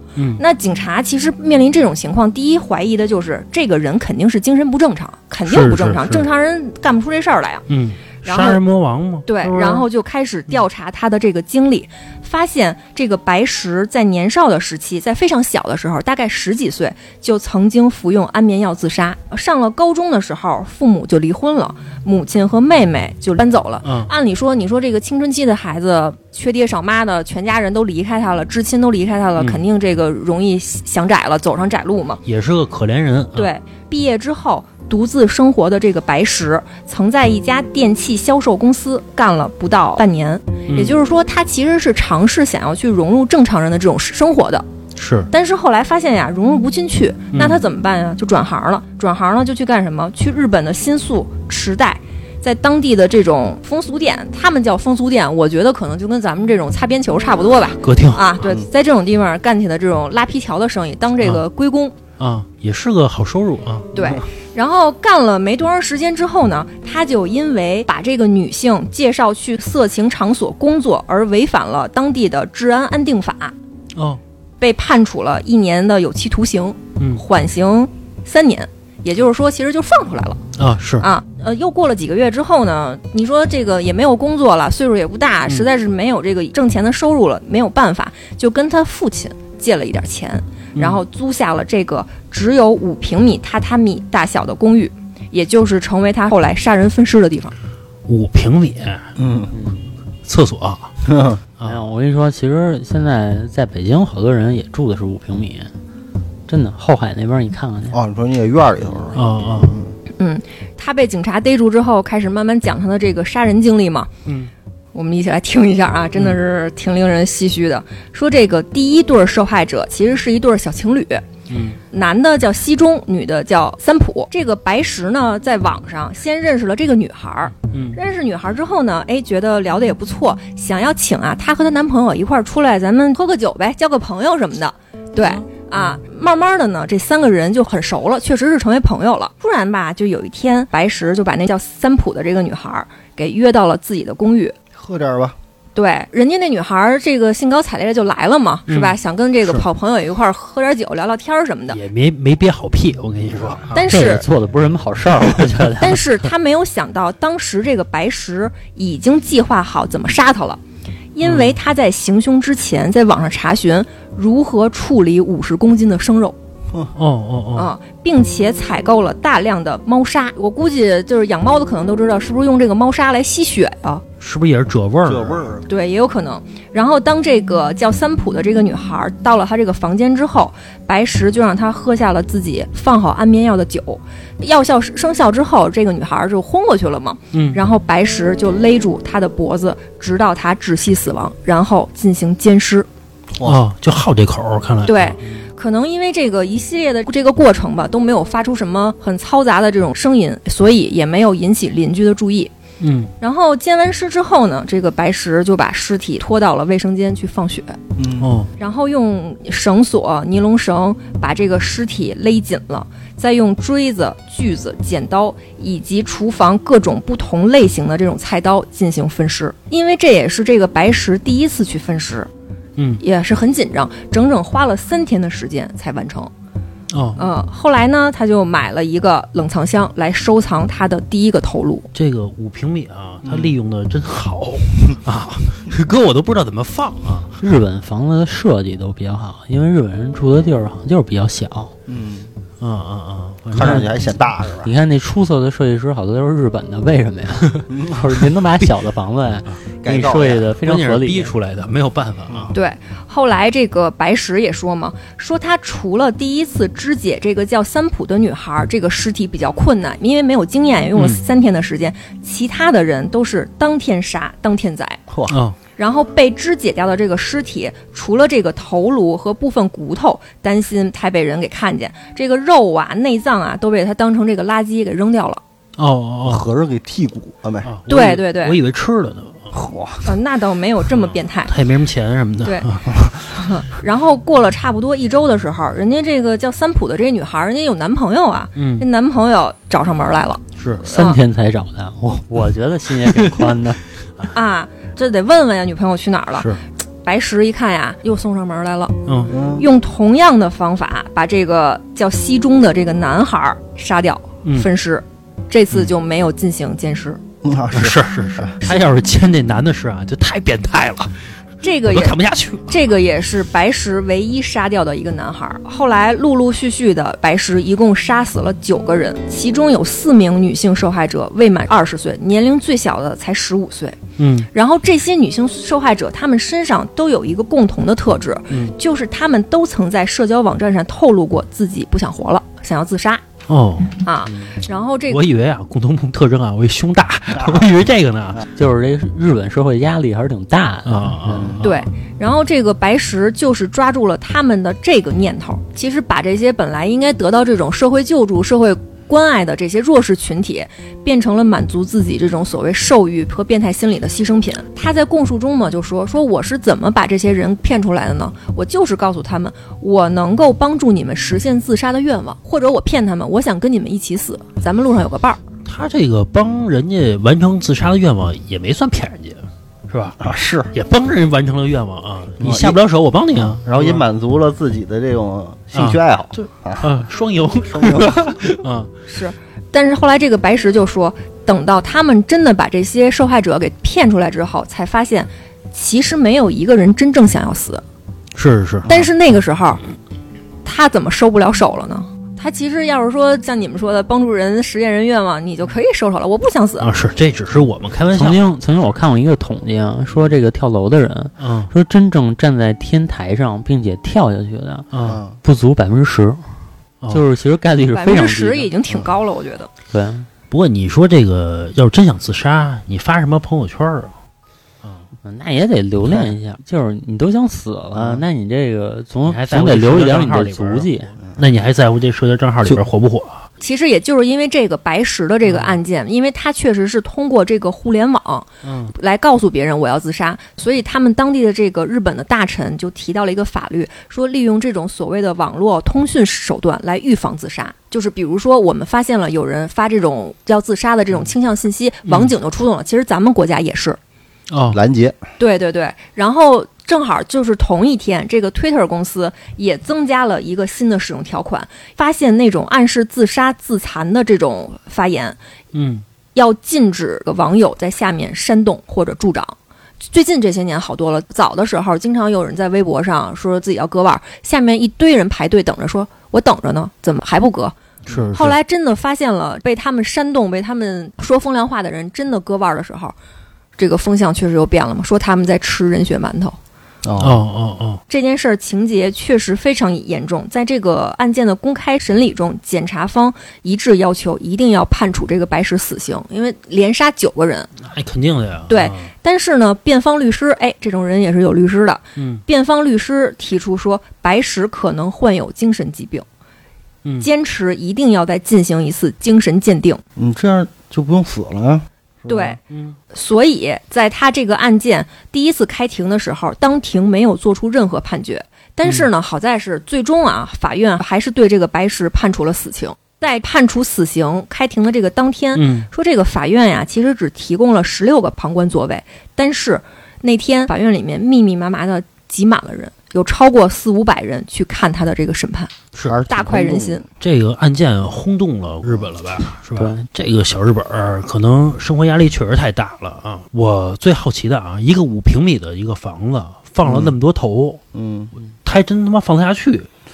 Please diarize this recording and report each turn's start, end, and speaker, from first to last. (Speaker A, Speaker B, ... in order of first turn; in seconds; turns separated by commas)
Speaker A: 0.2-0.4, Speaker B: 0.4-7.7, Speaker A: 5.5-6.3, Speaker A: 7.7-9.9, Speaker B: 8.2-8.6, Speaker B: 9.3-32.2, Speaker A: 23.8-24.1, Speaker A: 32.3-33.5, Speaker B: 33.4-44.6, Speaker A: 40.7-41.0, Speaker A: 45.0-45.3, Speaker B: 45.3-62.0, Speaker A: 47.4-47.6, Speaker A: 57.8-58.4, Speaker A: 62.2-63.9, Speaker B: 63.9-73.5, Speaker B: 74.6-80.4, Speaker A: 80.6-81.1, Speaker B: 81.0-97.5, Speaker A: 90.8-91.0, Speaker A: 98.1-99.1, Speaker C: 99.2-99.5, Speaker A: 100.3-100.9, Speaker C: 101.0-101.4, Speaker D: 101.6-105.7, Speaker D: 106.5-108.0, Speaker C: 107.9-109.9, Speaker A: 109.1-109.8, Speaker B: 110.2-114.1, Speaker A: 114.3-114.5, Speaker B: 114.9-121.2, Speaker A: 121.5-121.8, Speaker B: 121.9-144.6, Speaker A: 127.7-128.0, Speaker A: 135.2-136.0, Speaker C: 144.8-145.4, Speaker B: 145.8-151.8, Speaker A: 148.7-149.6, Speaker A: 151.7-154.1, Speaker B: 153.7-154.3, Speaker D: 153.9-156.2, Speaker B: 155.8-160.6, Speaker B: 161.2-166.4, Speaker A: 161.2-161.6, Speaker A: 167.0-167.7, Speaker B: 167.6-174.0, Speaker A: 174.2-175.5, Speaker C: 175.1-175.7, Speaker B: 175.7-192.9, Speaker A: 187.3-187.6, Speaker C: 193.3-193.6, Speaker A: 193.4-195.4, Speaker B: 194.9-202.5, Speaker A: 202.8-203.1, Speaker B: 203.2-207.8, Speaker C: 208.0-208.3, Speaker A: 208.2-208.5, Speaker B: 208.6-222.3, Speaker A: 222.8-223.0, Speaker B: 223.0-226.3, Speaker A: 226.9-227.2, Speaker B: 227.2-231.9, Speaker A: 231.9-237.4, Speaker C: 233.2-233.6, Speaker D: 237.4-241.7, Speaker C: 241.9-242.3, Speaker A: 242.6-243.9, Speaker C: 243.5-244.7, Speaker D: 243.6-243.9, Speaker D: 244.6-251.3, Speaker C: 247.7-248.0, Speaker C: 249.8-250.5, Speaker A: 250.6-252.5, Speaker B: 252.5-265.0, Speaker A: 261.0-261.2, Speaker C: 265.1-265.4, Speaker A: 265.3-265.6, Speaker B: 265.8-275.4, Speaker A: 275.8-276.5, Speaker C: 276.3-277.7, Speaker A: 277.6-279.5, Speaker B: 277.9-278.6, Speaker C: 279.5-280.1, Speaker B: 280.1-281.5, Speaker A: 281.0-283.1, Speaker B: 282.4-282.7, Speaker B: 283.3-291.2, Speaker A: 288.6-288.9, Speaker A: 290.6-290.9, Speaker D: 290.8-293.8, Speaker B: 294.3-296.5, Speaker B: 297.0-307.2, Speaker A: 299.1-299.3, Speaker C: 299.3-299.7, Speaker A: 304.4-304.7, Speaker C: 307.4-308.6, Speaker A: 307.7-311.2, Speaker B: 311.6-324.0, Speaker A: 311.9-312.8, Speaker A: 324.2-324.5, Speaker B: 324.5-333.2, Speaker A: 333.5-334.0, Speaker B: 334.0-335.2, Speaker A: 335.1-338.4, Speaker D: 338.6-341.6, Speaker A: 340.9-341.8, Speaker C: 341.3-341.6, Speaker B: 341.6-365.4, Speaker A: 365.6-370.2, Speaker C: 370.2-370.7, Speaker A: 370.7-374.0, Speaker C: 372.4-372.8, Speaker C: 373.4-376.9, Speaker A: 375.7-378.9, Speaker C: 377.6-378.5, Speaker B: 379.1-387.8, Speaker A: 388.4-389.0, Speaker B: 388.9-389.8, Speaker B: 390.6-396.9, Speaker A: 396.8-398.4, Speaker D: 398.1-404.9, Speaker A: 401.4-401.7, Speaker A: 404.9-405.2, Speaker C: 405.0-405.4, Speaker D: 405.4-406.4, Speaker D: 407.1-408.7, Speaker B: 407.9-409.7, Speaker D: 409.9-410.3, Speaker A: 410.5-414.1, Speaker D: 415.2-421.1, Speaker A: 419.2-423.5, Speaker B: 423.6-444.0, Speaker A: 425.5-425.8, Speaker A: 428.6-428.9, Speaker A: 442.1-442.3, Speaker A: 444.5-444.8, Speaker C: 444.7-445.2, Speaker B: 445.4-455.4, Speaker A: 455.7-456.0, Speaker B: 456.4-467.8, Speaker A: 468.1-468.6, Speaker B: 468.3-473.2, Speaker B: 473.8-476.6, Speaker C: 477.0-477.4, Speaker A: 477.2-478.0, Speaker B: 478.1-487.7, Speaker A: 487.8-489.1, Speaker B: 488.7-496.2, Speaker A: 492.2-492.4, Speaker B: 497.2-500.0, Speaker C: 500.2-502.6, Speaker B: 502.3-502.6, Speaker A: 502.7-503.0, Speaker B: 503.1-525.7, Speaker A: 508.8-509.1, Speaker A: 515.5-515.9, Speaker C: 526.0-527.0, Speaker B: 526.3-527.0, Speaker A: 527.2-537.8, Speaker C: 528.9-529.1, Speaker D: 529.8-530.0, Speaker C: 536.8-537.2, Speaker C: 537.9-538.3, Speaker A: 538.6-539.9